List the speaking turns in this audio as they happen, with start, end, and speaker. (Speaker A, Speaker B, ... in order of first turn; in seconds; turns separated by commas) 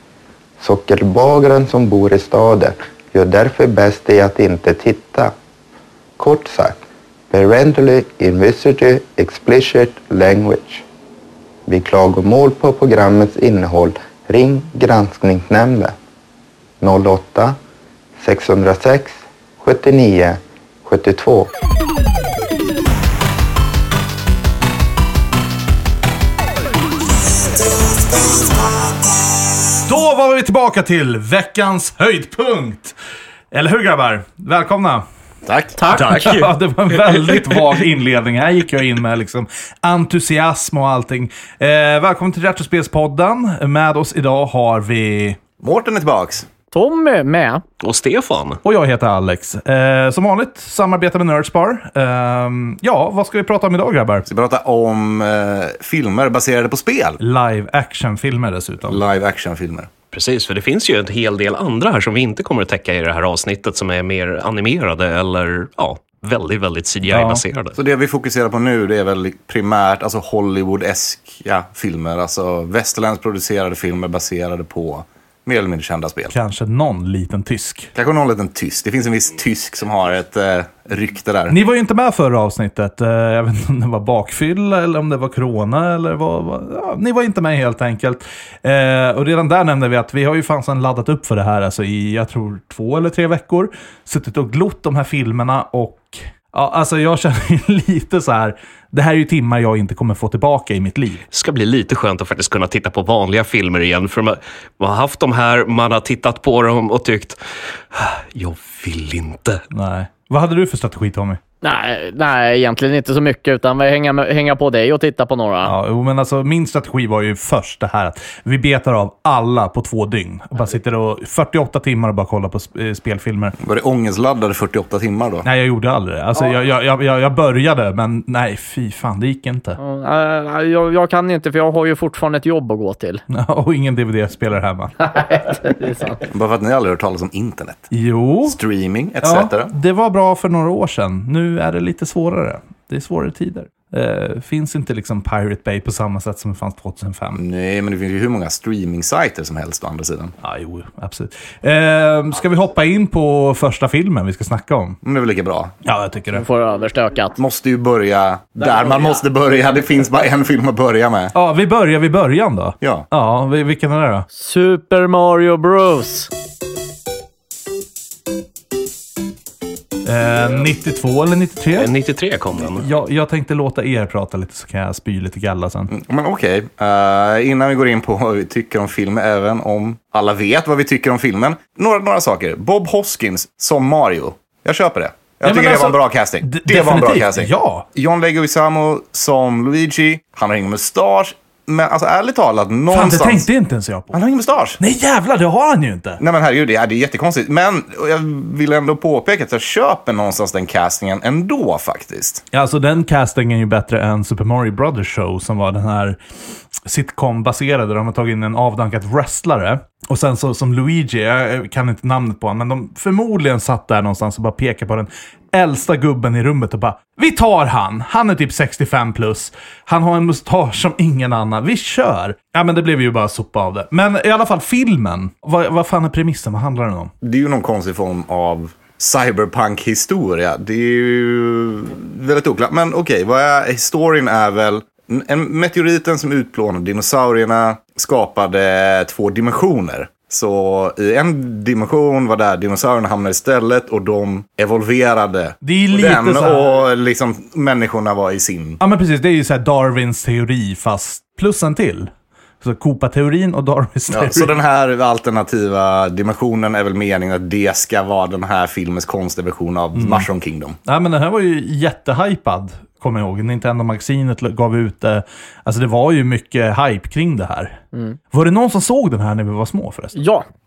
Speaker A: 0.6-5.3, Speaker A: 6.2-10.8, Speaker A: 11.7-15.9, Speaker A: 16.8-17.6, Speaker A: 18.2-21.5, Speaker B: 29.9-32.9, Speaker B: 33.5-35.0, Speaker C: 35.5-35.8, Speaker D: 35.8-36.5, Speaker B: 35.9-45.4, Speaker E: 36.1-36.4, Speaker C: 45.6-46.5, Speaker D: 46.7-47.6, Speaker E: 47.8-48.6, Speaker B: 48.6-54.2, Speaker C: 54.2-57.2, Speaker B: 57.2-59.0, Speaker C: 58.9-59.9, Speaker E: 60.1-67.8, Speaker B: 67.1-67.4, Speaker C: 67.8-76.3, Speaker B: 76.3-77.9, Speaker C: 77.9-81.6, Speaker B: 81.5-101.2, Speaker E: 101.3-107.4, Speaker E: 107.9-109.6, Speaker B: 109.7-111.4, Speaker D: 111.6-115.7, Speaker B: 115.6-123.5, Speaker C: 123.6-125.5, Speaker B: 125.4-129.8, Speaker D: 129.8-133.2, Speaker B: 133.3-135.1, Speaker D: 135.0-136.2, Speaker C: 136.3-137.9, Speaker B: 137.9-138.6, Speaker C: 138.4-139.7, Speaker B: 139.2-147.4, Speaker C: 147.3-150.3, Speaker B: 150.4-155.0, Speaker C: 155.0-155.7, Speaker B: 155.8-156.4, Speaker D: 156.3-157.4, Speaker C: 157.4-161.3, Speaker B: 161.3-164.2, Speaker C: 162.8-163.1, Speaker D: 164.3-166.3, Speaker B: 170.0-171.9, Speaker E: 171.8-172.8, Speaker B: 172.7-175.9, Speaker C: 175.9-193.5, Speaker B: 185.4-187.8, Speaker B: 192.9-194.2, Speaker C: 194.1-194.8, Speaker B: 194.8-196.2, Speaker C: 196.2-202.4, Speaker B: 202.5-206.2, Speaker B: 206.8-227.1, Speaker C: 227.2-248.8, Speaker B: 245.6-246.8, Speaker B: 248.8-254.5, Speaker C: 254.1-260.8, Speaker B: 259.9-260.3, Speaker B: 260.8-267.8, Speaker D: 267.9-268.2, Speaker B: 268.3-270.2, Speaker D: 270.1-270.4